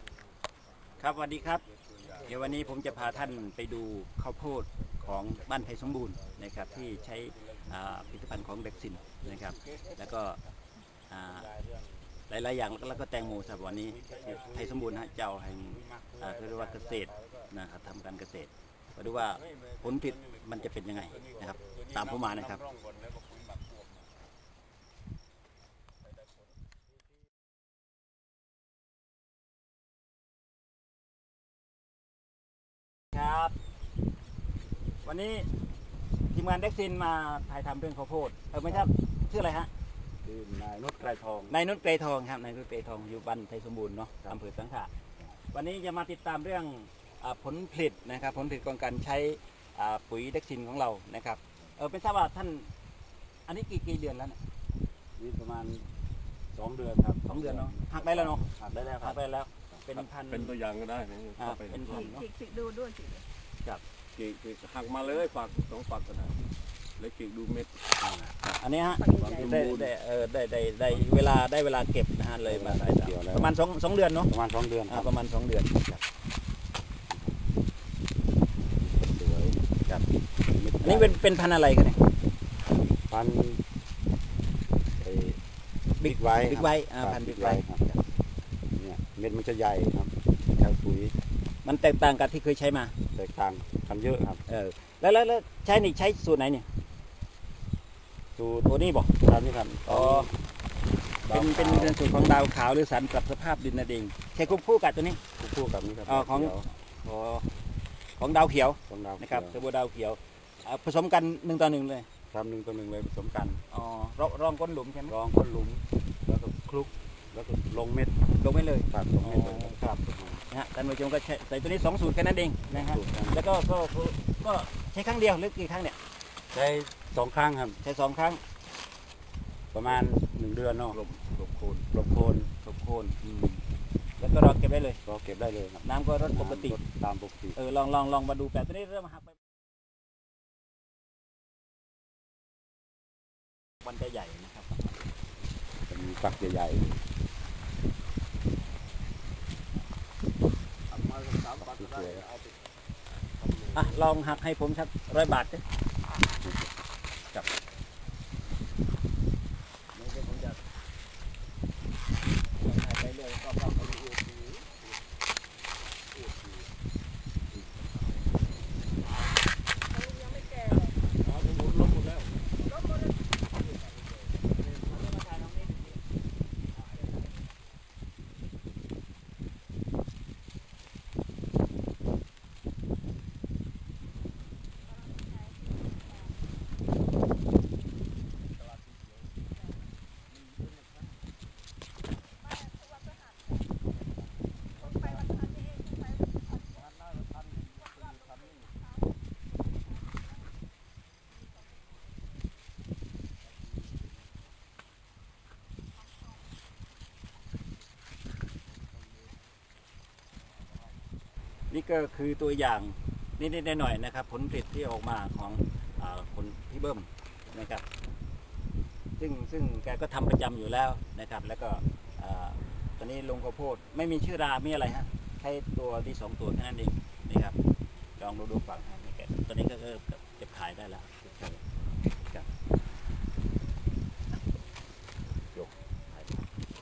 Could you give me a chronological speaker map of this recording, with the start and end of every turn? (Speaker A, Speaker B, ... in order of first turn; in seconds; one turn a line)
Speaker A: 1.0-1.6
Speaker B: 1.6-2.8
Speaker A: 2.2-10.4
Speaker C: 2.3-2.6
Speaker B: 9.1-10.0
Speaker A: 11.1-11.5
Speaker C: 11.3-12.1
Speaker A: 12.3-22.6
Speaker C: 13.8-15.0
Speaker B: 14.0-14.7
Speaker C: 15.7-17.4
Speaker B: 19.2-24.0
Speaker A: 33.1-33.5
Speaker A: 35.0-35.5
Speaker A: 36.3-39.7
Speaker C: 40.2-41.6
Speaker A: 41.5-44.9
Speaker A: 45.5-52.7
Speaker A: 53.5-54.4
Speaker C: 55.2-55.9
Speaker C: 56.5-59.2
Speaker A: 57.3-58.5
Speaker A: 59.0-60.6
Speaker B: 60.3-62.1
Speaker A: 61.4-62.3
Speaker D: 61.9-63.2
Speaker B: 64.2-66.4
Speaker B: 67.0-67.8
Speaker C: 68.0-68.4
Speaker A: 68.4-74.3
Speaker D: 69.0-69.5
Speaker C: 69.1-69.6
Speaker B: 69.3-69.9
Speaker C: 72.5-73.5
Speaker C: 74.3-75.1
Speaker A: 74.9-76.0
Speaker C: 77.1-77.4
Speaker C: 78.8-81.2
Speaker A: 80.8-82.0
Speaker C: 82.9-83.6
Speaker C: 85.0-85.4
Speaker A: 86.0-88.0
Speaker C: 86.0-87.8
Speaker C: 88.8-91.2
Speaker A: 91.6-92.9
Speaker C: 93.1-94.4
Speaker A: 94.5-96.7
Speaker C: 98.4-100.3
Speaker A: 98.7-99.1
Speaker A: 99.9-100.3
Speaker C: 101.2-102.0
Speaker A: 101.3-105.2
Speaker C: 105.4-106.7
Speaker A: 106.1-107.5
Speaker A: 108.2-112.1
Speaker C: 108.9-109.6
Speaker C: 112.3-113.6
Speaker A: 113.7-115.2
Speaker C: 115.1-118.2
Speaker A: 118.4-120.0
Speaker C: 118.9-120.4
Speaker A: 120.5-126.0
Speaker C: 122.7-123.4
Speaker C: 126.5-127.8
Speaker A: 127.8-128.4
Speaker C: 129.7-131.0
Speaker B: 130.9-131.8
Speaker C: 131.9-132.5
Speaker A: 132.6-133.6
Speaker A: 134.2-135.0
Speaker C: 135.1-137.6
Speaker A: 135.8-136.8
Speaker A: 137.6-139.4
Speaker A: 143.8-144.9
Speaker C: 145.9-147.0
Speaker B: 150.9-152.6
Speaker C: 151.6-152.3
Speaker B: 153.4-154.1
Speaker A: 153.7-155.6
Speaker C: 160.0-160.5
Speaker A: 162.7-164.0
Speaker B: 163.5-164.7
Speaker B: 166.2-166.6
Speaker D: 169.9-170.9
Speaker B: 171.2-172.3
Speaker A: 174.6-176.0
Speaker D: 185.1-186.3
Speaker B: 188.6-189.3
Speaker B: 190.3-191.2
Speaker D: 192.4-193.7
Speaker B: 194.8-195.4
Speaker D: 194.9-196.9
Speaker B: 196.9-198.7
Speaker A: 211.7-217.8
Speaker A: 219.2-227.6
Speaker A: 228.2-231.6
Speaker A: 235.5-236.4